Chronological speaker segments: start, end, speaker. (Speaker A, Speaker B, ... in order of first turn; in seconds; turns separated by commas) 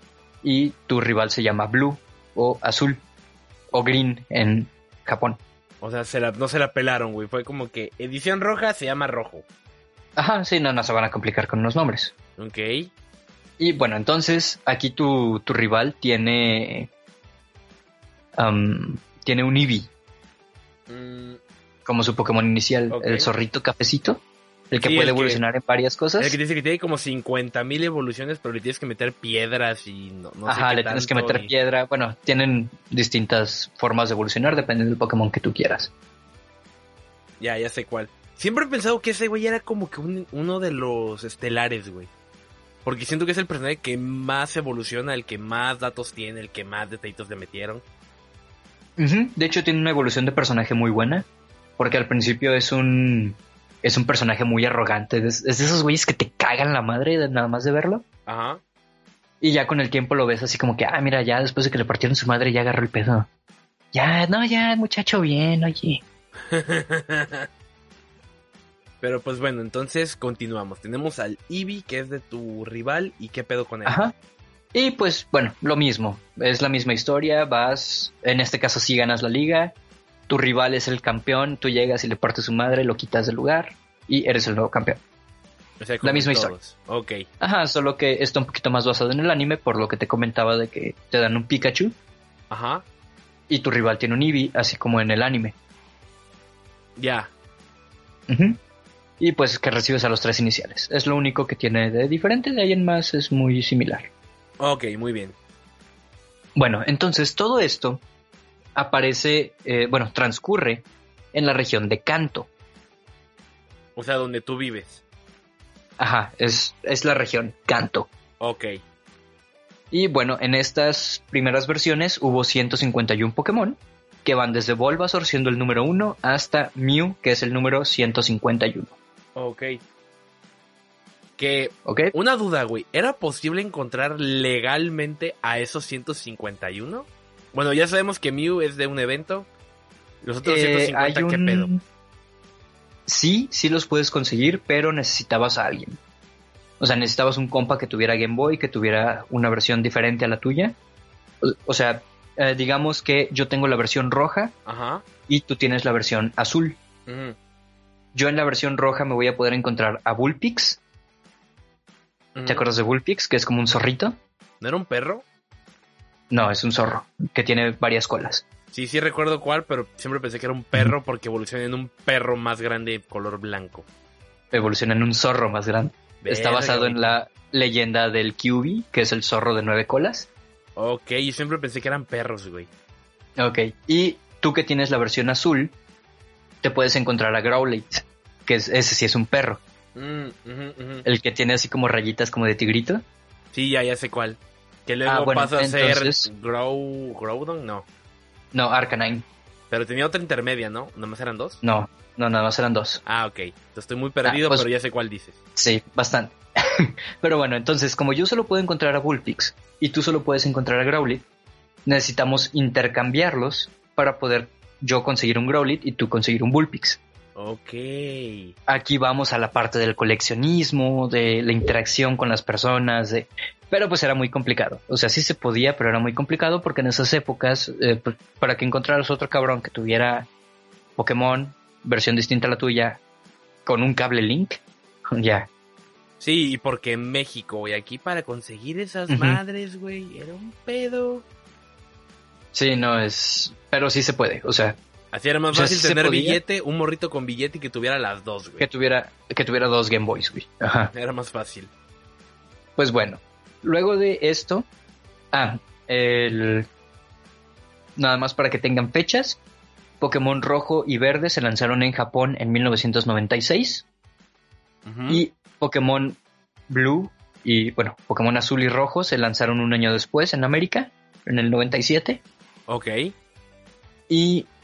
Speaker A: 0.4-3.0, Speaker A: 3.7-5.4, Speaker B: 5.8-9.4, Speaker A: 10.2-12.1, Speaker B: 12.4-12.9, Speaker A: 13.6-16.9, Speaker A: 18.3-19.9, Speaker B: 20.9-21.4, Speaker A: 21.9-26.4, Speaker B: 22.9-23.3, Speaker B: 24.8-25.4, Speaker B: 26.2-31.5, Speaker A: 30.5-35.9, Speaker B: 37.4-42.1, Speaker B: 42.8-47.8, Speaker A: 49.0-51.2, Speaker A: 51.8-58.0, Speaker B: 58.3-58.6, Speaker A: 59.4-63.3, Speaker A: 63.9-66.0, Speaker B: 66.5-67.5, Speaker B: 69.0-74.0, Speaker A: 73.8-74.1, Speaker A: 74.7-79.7, Speaker A: 80.3-85.0, Speaker B: 85.8-87.3, Speaker A: 86.0-86.5, Speaker A: 87.4-91.9, Speaker B: 92.5-92.8, Speaker A: 93.5-95.5, Speaker B: 97.0-97.3, Speaker A: 98.3-98.6, Speaker A: 99.2-104.1, Speaker B: 104.6-105.3, Speaker A: 106.5-108.0, Speaker A: 108.7-112.5, Speaker B: 114.0-115.0, Speaker A: 116.0-118.1, Speaker B: 118.4-118.8, Speaker A: 119.9-128.9, Speaker B: 129.3-129.8, Speaker B: 131.4-139.5, Speaker A: 131.8-132.1, Speaker B: 140.2-141.7, Speaker A: 140.4-141.8, Speaker A: 143.1-146.0, Speaker A: 146.8-150.8, Speaker A: 151.4-154.5, Speaker B: 154.7-155.0, Speaker A: 155.3-156.8, Speaker B: 157.1-157.3, Speaker A: 158.1-160.8, Speaker B: 162.3-162.7, Speaker A: 162.4-164.2, Speaker B: 164.6-165.2, Speaker A: 166.3-168.4, Speaker B: 168.7-173.8, Speaker A: 174.5-180.3, Speaker B: 176.2-177.2, Speaker B: 180.8-182.7, Speaker A: 183.4-185.7, Speaker A: 186.6-189.6, Speaker B: 189.9-191.0, Speaker A: 191.0-193.0, Speaker B: 193.5-197.8, Speaker A: 195.1-196.3, Speaker A: 198.5-199.2, Speaker B: 199.7-201.6, Speaker A: 201.6-203.0, Speaker B: 203.0-205.4, Speaker A: 204.2-204.7, Speaker A: 205.6-211.2, Speaker A: 211.8-217.0, Speaker B: 217.3-218.5, Speaker A: 218.7-230.3, Speaker A: 231.0-233.0, Speaker A: 233.7-234.6, Speaker A: 235.1-235.5, Speaker B: 236.2-241.2, Speaker A: 239.1-239.4, Speaker A: 242.5-244.8, Speaker B: 245.1-248.7, Speaker A: 245.5-246.4, Speaker A: 248.6-250.9, Speaker B: 250.9-251.7, Speaker A: 252.8-254.7, Speaker A: 255.3-256.7, Speaker A: 258.0-259.4, Speaker A: 260.0-263.8, Speaker B: 264.8-265.2, Speaker A: 265.1-272.2, Speaker B: 272.7-273.1, Speaker A: 274.1-274.5